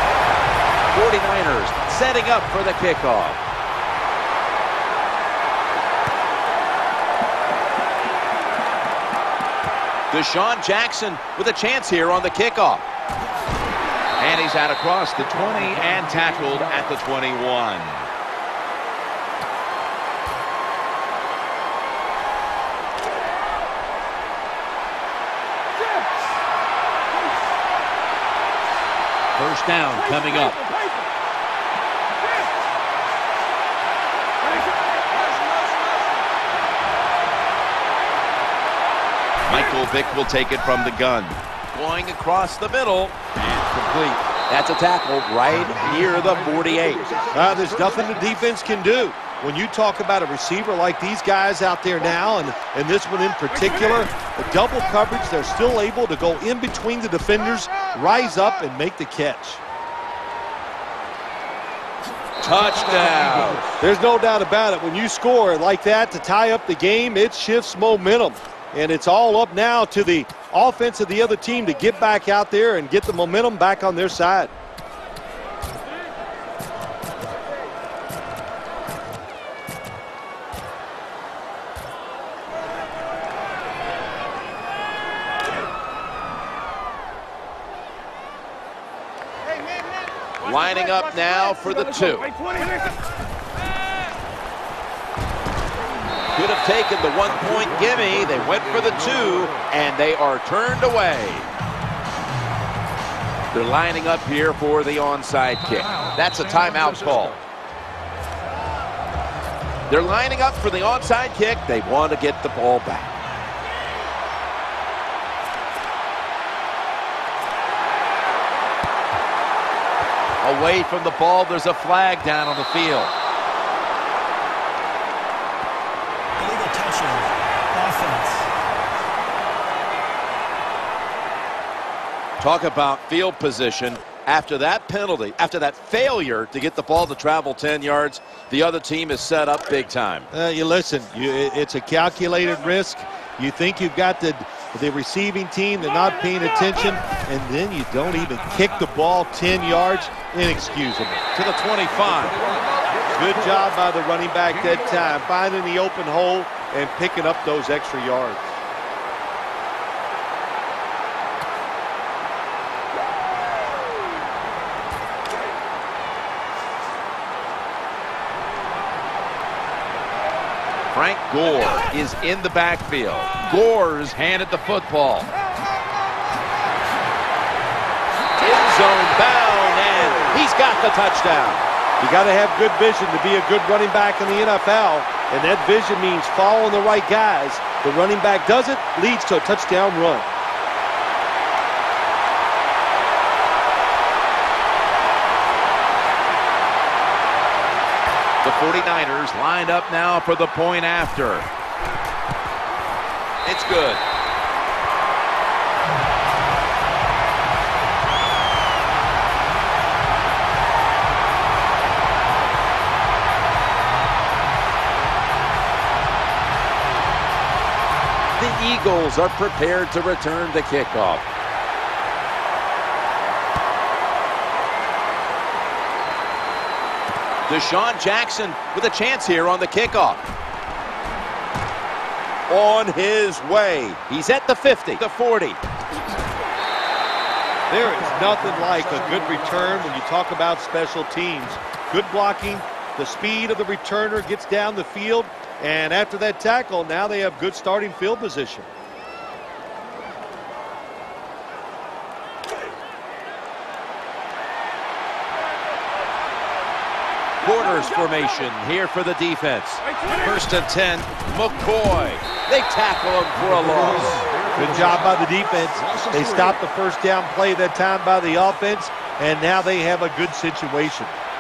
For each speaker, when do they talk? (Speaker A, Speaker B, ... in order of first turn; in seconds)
Speaker A: 0.9-3.4, 10.1-12.8, 14.2-18.1, 29.4-30.7, 39.5-47.3, 62.4-63.8, 90.4-92.3, 96.4-101.5, 103.5-107.4, 109.9-113.1, 120.4-123.1, 132.4-140.3, 151.3-152.4, 170.9-175.3, 178.4-181.6, 198.4-201.5, 203.4-204.0, 218.4-221.2, 227.5-230.2, 232.5-235.6, 257.4-264.3
Speaker B: 47.3-59.6, 63.8-74.5, 140.3-151.2, 153.1-158.5, 182.0-190.3, 237.7-248.7, 264.5-271.2
Speaker C: 126.4-128.5